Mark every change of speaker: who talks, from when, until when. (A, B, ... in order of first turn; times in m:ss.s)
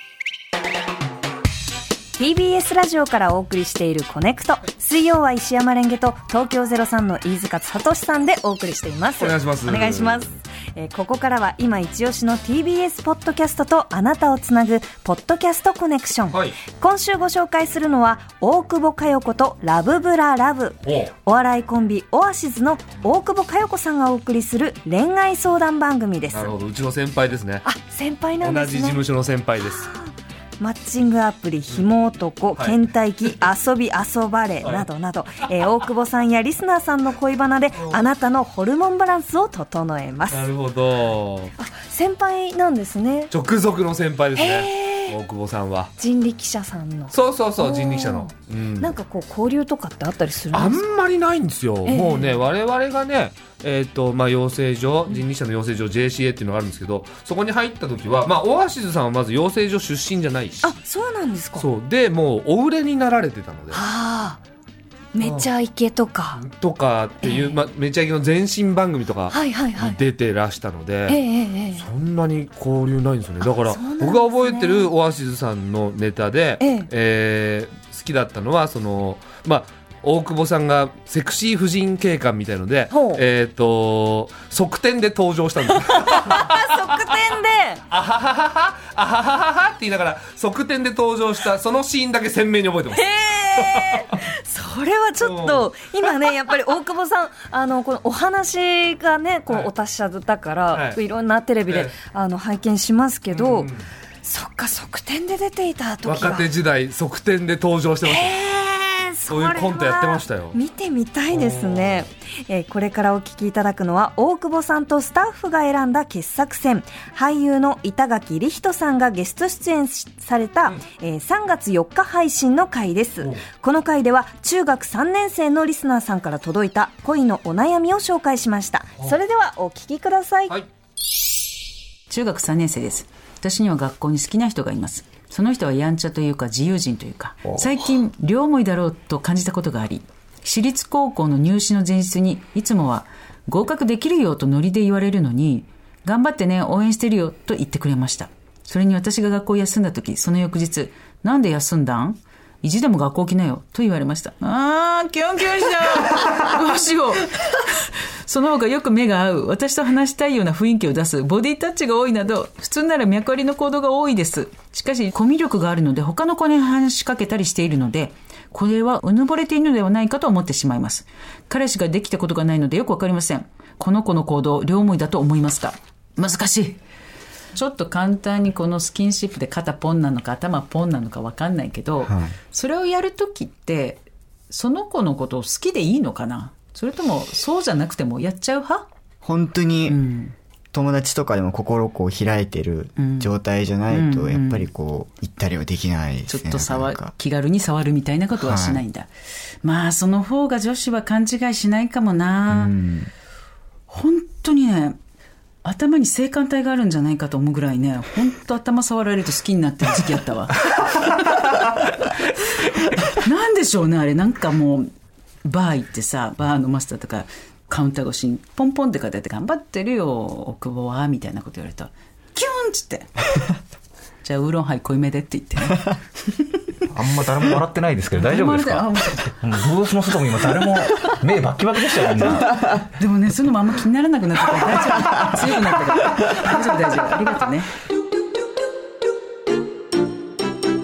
0:02.2-0:26.5 A
0:09.2-0:10.2 B
0:20.9-0:21.1 B
0:26.3-0:27.7 B
0:27.6-0:29.0 A
0:28.4-0:29.9 B
0:29.6-0:40.5 A
0:40.3-0:41.5 B
0:41.6-0:43.3 A
0:43.3-0:45.9 B
0:44.4-0:45.2 A
0:46.0-0:50.8 A
0:47.1-0:48.9 B
0:50.5-1:00.7 B
0:51.9-0:52.4 A
1:00.6-1:01.7 A
1:01.6-1:03.8 B
1:03.7-1:04.4 A
1:05.2-1:06.4 A
1:05.2-1:05.5 B
1:06.4-1:11.2 B
1:07.2-1:07.6 A
1:09.3-1:10.0 A
1:11.1-1:11.8 A
1:11.8-1:27.0 B
1:13.4-1:14.9 A
1:16.6-1:16.9 A
1:22.9-1:23.2 A
1:25.8-1:27.8 A
1:27.9-1:33.1 B
1:32.9-1:43.7 A
1:33.7-1:34.2 B
1:35.2-1:35.7 B
1:40.7-1:41.0 B
1:41.7-1:42.0 B
1:43.3-1:43.8 B
1:44.2-1:46.5 A
1:46.0-1:48.4 B
1:48.0-2:10.6 A
1:49.3-1:50.6 B
1:51.3-1:52.0 B
2:12.1-2:56.8 C
2:57.6-3:08.9 C
3:02.1-3:02.4 D
3:09.2-3:10.0 D
3:09.9-3:10.3 C
3:10.7-3:17.1 D
3:13.0-3:13.3 C
3:13.9-3:14.7 C
3:16.3-3:22.8 C
3:18.4-3:18.8 D
3:22.5-3:23.1 D
3:23.9-3:25.0 C
3:25.6-3:32.1 C
3:33.0-3:34.9 C
3:35.4-3:43.4 C
3:44.2-3:46.6 C
3:46.9-3:52.6 E
3:48.1-3:49.5 C
3:50.6-3:51.2 C
3:52.1-3:57.7 C